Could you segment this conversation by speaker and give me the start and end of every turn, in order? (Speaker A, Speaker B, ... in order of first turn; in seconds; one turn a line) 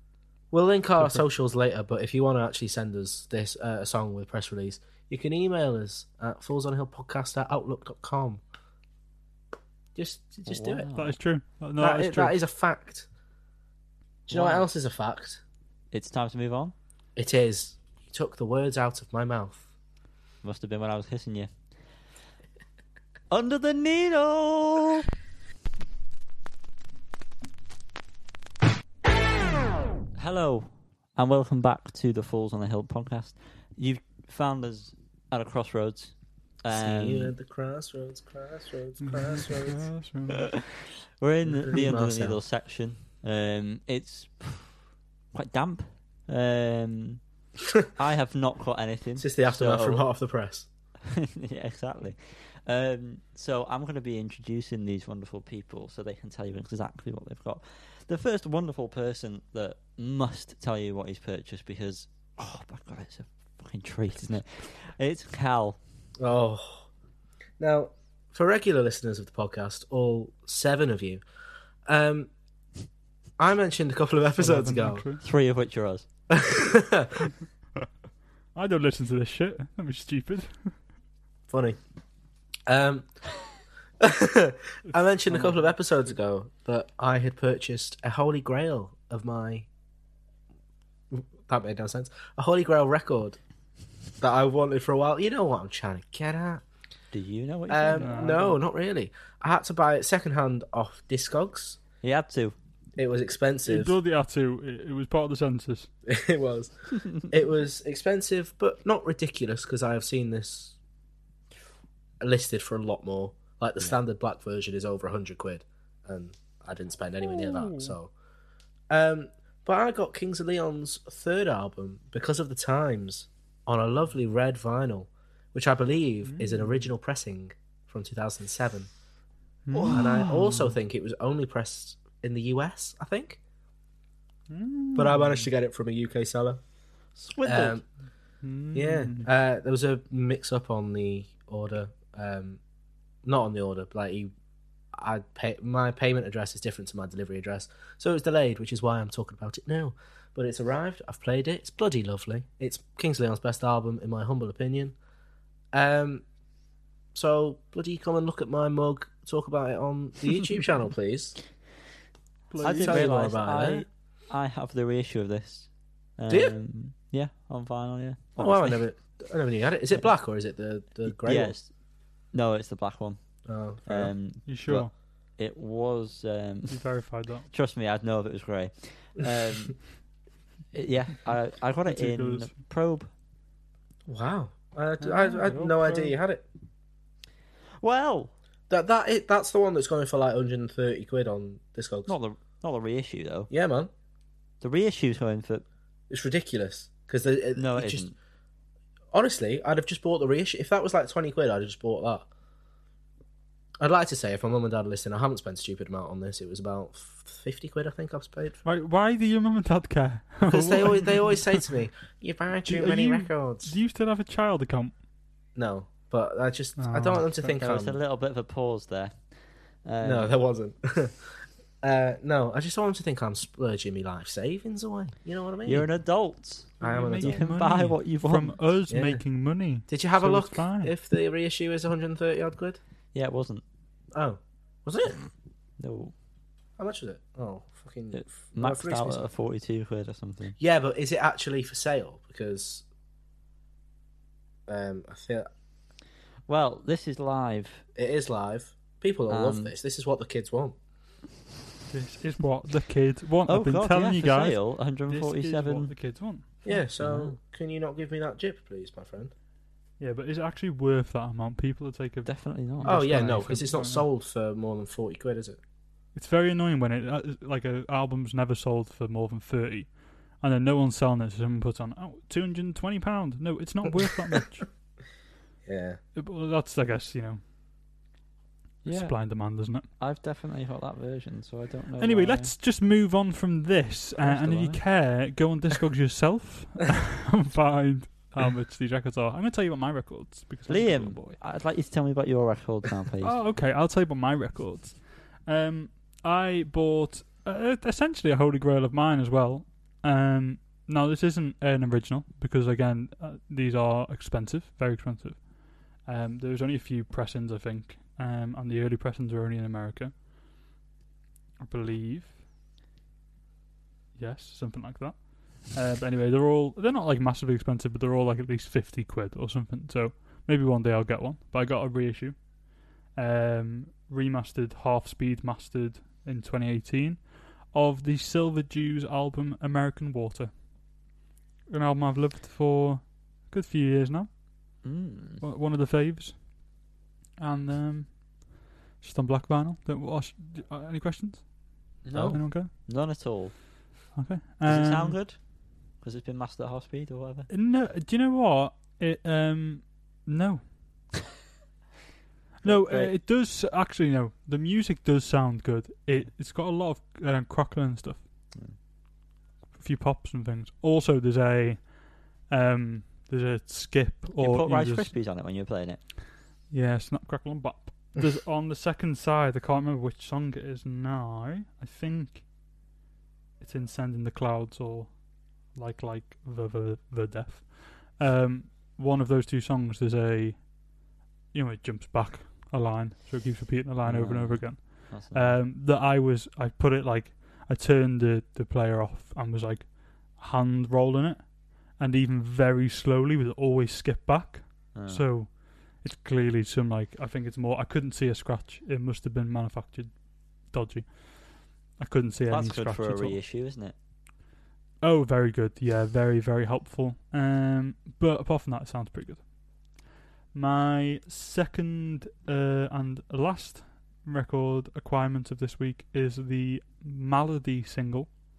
Speaker A: 0.5-8.4
Speaker A: 9.9-10.9
Speaker B: 10.5-11.2
Speaker C: 10.9-12.4
Speaker A: 11.8-13.1
Speaker A: 14.3-15.4
Speaker B: 14.3-14.7
Speaker B: 15.9-16.8
Speaker A: 17.2-19.7
Speaker B: 20.4-21.5
Speaker B: 23.3-25.1
Speaker B: 30.2-37.3
Speaker A: 36.7-39.9
Speaker C: 39.0-40.5
Speaker B: 40.4-44.8
Speaker A: 41.5-42.4
Speaker B: 45.3-47.2
Speaker B: 47.9-50.1
Speaker A: 49.2-50.7
Speaker B: 51.1-65.8
Speaker A: 66.2-66.9
Speaker A: 67.6-71.2
Speaker A: 71.9-72.3
Speaker A: 73.4-75.0
Speaker C: 74.4-75.2
Speaker B: 75.2-76.1
Speaker A: 76.3-77.3
Speaker C: 78.5-80.8
Speaker A: 81.5-81.8
Speaker A: 82.7-83.1
Speaker A: 84.0-89.7
Speaker C: 85.3-85.6
Speaker A: 91.1-93.4
Speaker A: 94.2-96.6
Speaker B: 97.1-98.5
Speaker A: 97.7-101.8
Speaker C: 98.0-98.6
Speaker B: 102.0-102.5
Speaker A: 103.0-104.0
Speaker C: 103.7-105.9
Speaker A: 106.1-110.8
Speaker A: 112.2-118.1
Speaker C: 117.3-117.9
Speaker A: 118.9-128.9
Speaker C: 126.2-126.9
Speaker C: 129.7-130.7
Speaker B: 129.7-130.2
Speaker A: 129.9-133.4
Speaker C: 134.5-135.5
Speaker A: 134.9-136.6
Speaker B: 137.2-137.8
Speaker A: 137.4-137.8
Speaker C: 138.4-139.3
Speaker A: 138.7-142.6
Speaker A: 143.2-144.3
Speaker A: 144.9-154.9
Speaker A: 155.7-156.2
Speaker A: 157.2-161.3
Speaker C: 162.5-163.1
Speaker A: 162.6-163.9
Speaker B: 162.6-168.8
Speaker A: 168.4-171.5
Speaker B: 171.1-171.7
Speaker B: 172.3-173.2
Speaker A: 173.5-174.1
Speaker B: 173.9-176.8
Speaker C: 174.5-174.9
Speaker C: 176.7-177.5
Speaker B: 177.5-179.9
Speaker B: 180.7-183.1
Speaker C: 181.9-182.6
Speaker A: 184.1-186.4
Speaker B: 185.0-186.1
Speaker B: 187.8-188.3
Speaker A: 188.7-192.1
Speaker B: 192.1-193.5
Speaker A: 193.5-193.9
Speaker B: 194.6-195.7
Speaker A: 196.1-198.1
Speaker B: 197.6-198.1
Speaker A: 199.1-202.3
Speaker A: 203.8-208.6
Speaker C: 208.6-211.6
Speaker A: 210.5-213.8
Speaker C: 212.7-215.0
Speaker A: 215.6-218.0
Speaker C: 216.8-217.6
Speaker B: 217.6-219.2
Speaker B: 219.8-220.3
Speaker A: 220.0-225.9
Speaker B: 225.7-228.6
Speaker A: 226.8-227.4
Speaker C: 226.8-230.9
Speaker A: 228.9-229.2
Speaker A: 229.9-232.8
Speaker B: 233.1-233.6
Speaker A: 234.1-235.2
Speaker B: 235.8-236.1
Speaker A: 236.8-239.2
Speaker B: 238.1-240.6
Speaker A: 240.6-242.8
Speaker A: 244.7-245.5
Speaker B: 246.5-247.8
Speaker A: 247.9-250.8
Speaker B: 249.3-249.7
Speaker C: 251.9-256.7
Speaker B: 253.5-255.9
Speaker A: 256.7-259.3
Speaker B: 256.7-257.4
Speaker C: 260.0-264.1
Speaker B: 262.2-263.4
Speaker A: 262.8-265.6
Speaker C: 266.1-274.7
Speaker A: 275.7-276.0
Speaker C: 276.1-277.4
Speaker B: 278.8-279.2
Speaker C: 278.9-279.9
Speaker B: 280.0-282.5
Speaker C: 282.0-291.4
Speaker B: 284.2-284.8
Speaker B: 290.7-293.4
Speaker C: 293.2-310.2
Speaker C: 311.6-312.4
Speaker C: 314.2-322.5
Speaker C: 323.1-330.6
Speaker C: 331.7-334.3
Speaker B: 334.8-335.4
Speaker C: 335.4-336.5
Speaker C: 337.4-342.7
Speaker B: 342.0-343.6
Speaker A: 342.1-342.4
Speaker C: 344.1-345.2
Speaker B: 344.6-347.5
Speaker C: 347.5-350.7
Speaker C: 352.6-358.3
Speaker B: 352.6-353.1
Speaker B: 358.5-358.8
Speaker C: 359.8-365.1
Speaker B: 364.4-366.0
Speaker C: 366.7-372.4
Speaker C: 373.6-375.2
Speaker C: 375.7-380.8
Speaker C: 381.5-403.4
Speaker B: 384.1-385.6
Speaker B: 394.9-395.3
Speaker B: 402.5-403.9
Speaker C: 405.0-409.5
Speaker C: 410.5-418.4